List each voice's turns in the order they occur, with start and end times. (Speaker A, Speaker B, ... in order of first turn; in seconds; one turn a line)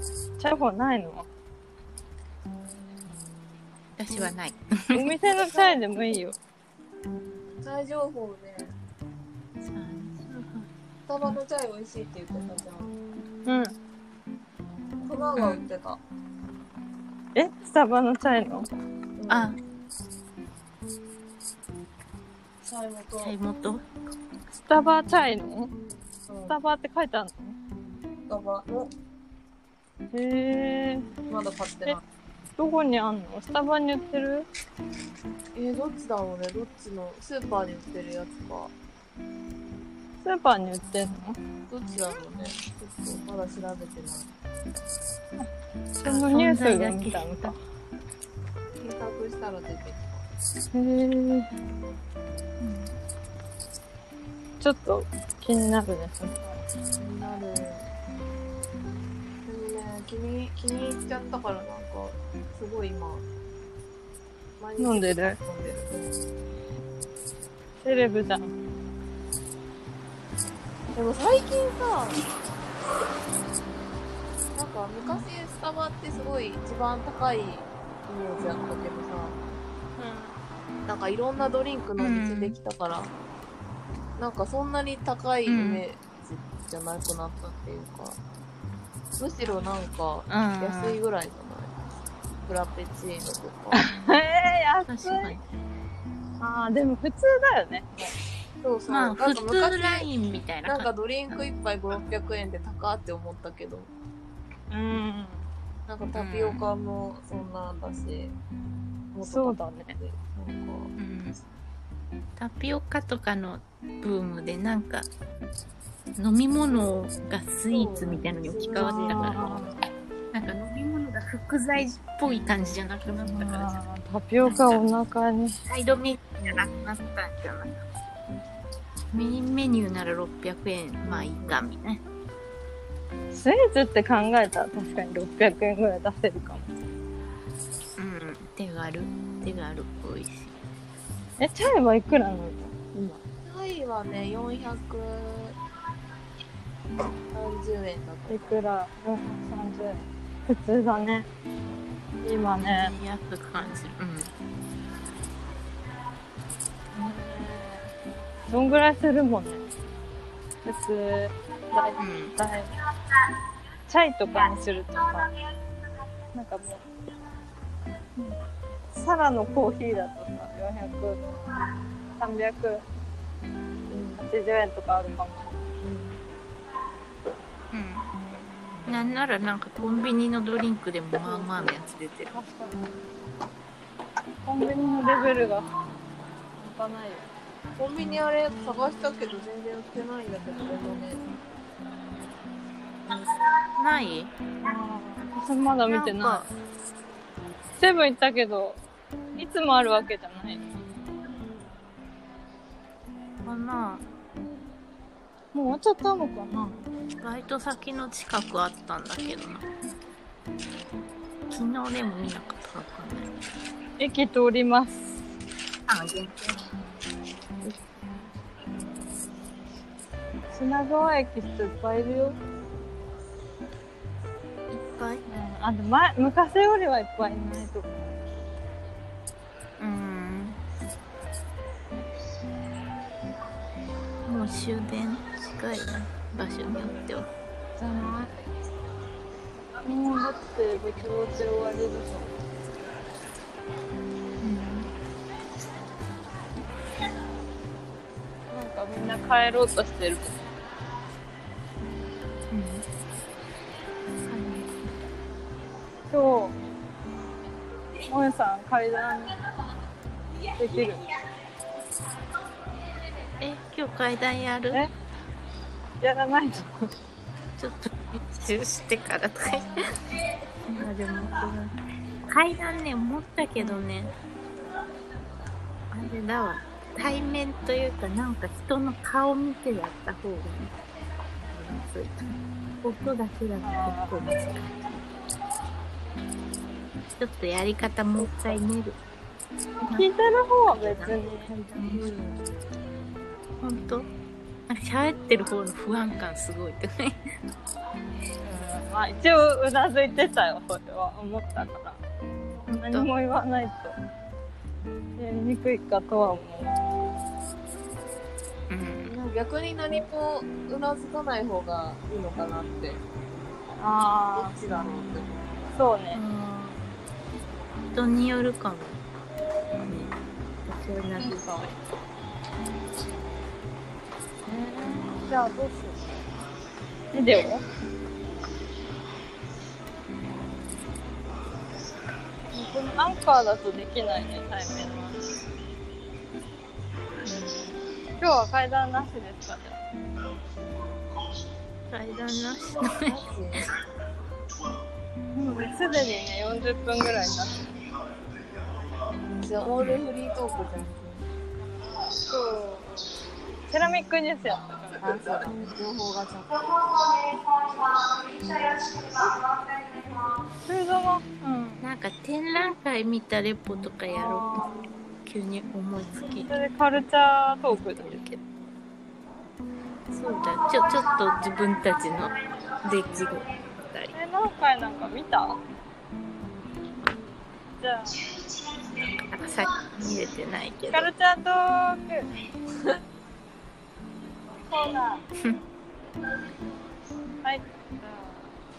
Speaker A: 0.4-1.3
Speaker B: 4.0-5.1
Speaker A: 4.9-6.4
Speaker C: 7.6-8.8
Speaker B: 9.6-10.7
Speaker C: 11.1-12.9
Speaker A: 13.4-13.7
Speaker C: 15.0-16.0
Speaker B: 15.3-15.7
Speaker A: 17.3-18.7
Speaker C: 19.1-19.5
Speaker B: 19.3-19.6
Speaker C: 22.6-23.3
Speaker B: 23.2-23.8
Speaker A: 24.6-25.7
Speaker C: 26.3-26.5
Speaker A: 26.5-27.6
Speaker C: 28.3-28.9
Speaker A: 30.1-31.1
Speaker C: 31.3-32.0
Speaker A: 32.6-34.5
Speaker C: 35.5-38.7
Speaker A: 40.2-41.4
Speaker C: 41.7-44.3
Speaker A: 45.4-47.6
Speaker B: 46.0-47.5
Speaker C: 48.8-50.2
Speaker A: 50.7-51.5
Speaker B: 52.6-52.9
Speaker A: 54.6-56.6
Speaker C: 57.0-57.9
Speaker C: 59.5-63.2
Speaker C: 64.6-66.2
Speaker A: 64.8-65.4
Speaker A: 67.8-68.5
Speaker C: 70.9-72.2
Speaker C: 74.5-79.4
Speaker A: 80.0-80.3
Speaker C: 80.8-83.1
Speaker B: 82.0-82.5
Speaker C: 84.2-88.2
Speaker B: 85.5-85.8
Speaker C: 89.2-91.8
Speaker B: 90.3-91.0
Speaker C: 92.4-93.8
Speaker A: 93.7-95.3
Speaker B: 94.9-95.4
Speaker A: 96.4-98.1
Speaker C: 98.6-103.9
Speaker B: 98.9-100.9
Speaker A: 104.7-105.5
Speaker C: 105.9-108.4
Speaker B: 106.1-106.6
Speaker C: 109.1-110.9
Speaker A: 109.2-110.0
Speaker B: 111.0-111.4
Speaker B: 112.4-115.1
Speaker B: 116.2-119.6
Speaker C: 117.7-119.6
Speaker A: 118.8-119.8
Speaker B: 120.3-123.8
Speaker A: 123.3-125.6
Speaker B: 124.4-124.8
Speaker B: 125.6-127.8
Speaker B: 129.1-132.0
Speaker C: 131.0-131.6
Speaker A: 133.3-136.7
Speaker B: 138.0-140.5
Speaker A: 141.4-143.2
Speaker C: 143.4-145.6
Speaker C: 147.3-148.6
Speaker A: 148.3-151.3
Speaker A: 152.2-152.9
Speaker B: 152.7-154.3
Speaker A: 156.9-157.9
Speaker A: 158.5-159.7
Speaker A: 160.6-162.7
Speaker B: 162.0-162.4
Speaker A: 163.9-165.3
Speaker A: 166.3-166.8
Speaker A: 168.9-171.2
Speaker A: 172.2-172.8
Speaker C: 173.9-174.2
Speaker A: 174.2-175.7
Speaker C: 175.8-176.2
Speaker B: 177.7-178.1
Speaker B: 178.8-182.3
Speaker C: 181.2-181.8
Speaker A: 182.3-182.9
Speaker A: 184.4-185.7
Speaker A: 186.6-187.3
Speaker C: 187.8-191.2
Speaker B: 193.8-194.3
Speaker A: 194.6-196.5
Speaker B: 195.9-196.5
Speaker A: 197.8-198.8
Speaker A: 199.4-200.6
Speaker B: 203.4-204.1
Speaker A: 205.5-206.8
Speaker B: 207.2-209.7
Speaker B: 211.5-213.3
Speaker A: 214.0-215.2
Speaker B: 215.9-216.6
Speaker A: 220.5-222.4
Speaker B: 224.7-225.2
Speaker A: 225.3-228.2
Speaker B: 229.8-230.6
Speaker B: 234.2-237.3
Speaker A: 237.8-238.3
Speaker A: 239.8-242.3
Speaker B: 244.4-244.9
Speaker A: 248.5-250.5
Speaker B: 252.5-252.8
Speaker B: 254.2-254.9
Speaker A: 256.1-256.6
Speaker A: 258.1-259.3
Speaker A: 260.6-261.0
Speaker B: 263.4-264.8
Speaker A: 266.0-266.9
Speaker B: 267.6-269.9
Speaker B: 270.7-271.7
Speaker B: 272.3-274.1
Speaker A: 273.6-273.9
Speaker B: 275.9-280.7
Speaker B: 281.5-284.9
Speaker A: 283.6-284.2
Speaker B: 287.1-289.0
Speaker A: 289.8-291.5
Speaker B: 289.9-292.2
Speaker C: 291.9-292.4
Speaker B: 293.6-294.1
Speaker B: 294.7-297.2
Speaker A: 298.4-302.0
Speaker B: 302.7-303.1
Speaker A: 302.7-304.0
Speaker A: 305.2-306.8
Speaker B: 308.7-309.1
Speaker C: 309.0-313.0
Speaker A: 313.8-314.5
Speaker C: 314.3-315.7
Speaker A: 315.7-316.2
Speaker B: 316.1-316.7
Speaker B: 317.9-319.0
Speaker B: 319.9-320.1
Speaker B: 320.7-321.6
Speaker A: 321.2-321.7
Speaker A: 324.4-326.1
Speaker A: 327.1-327.6
Speaker A: 332.5-335.2
Speaker B: 337.2-337.6
Speaker A: 338.2-339.8
Speaker B: 341.9-343.2
Speaker C: 343.1-343.7
Speaker A: 345.4-347.7
Speaker C: 349.3-351.2
Speaker B: 349.8-350.0
Speaker A: 352.3-353.1
Speaker A: 353.7-355.0
Speaker C: 355.0-356.7
Speaker A: 357.0-361.8
Speaker B: 361.8-364.7
Speaker A: 364.1-364.9
Speaker B: 365.2-366.6
Speaker A: 366.3-368.1
Speaker B: 367.7-368.4
Speaker B: 370.1-374.1
Speaker A: 374.1-375.6
Speaker A: 377.8-378.2
Speaker B: 379.3-381.1
Speaker A: 380.9-382.3
Speaker A: 384.6-385.2
Speaker A: 387.4-388.5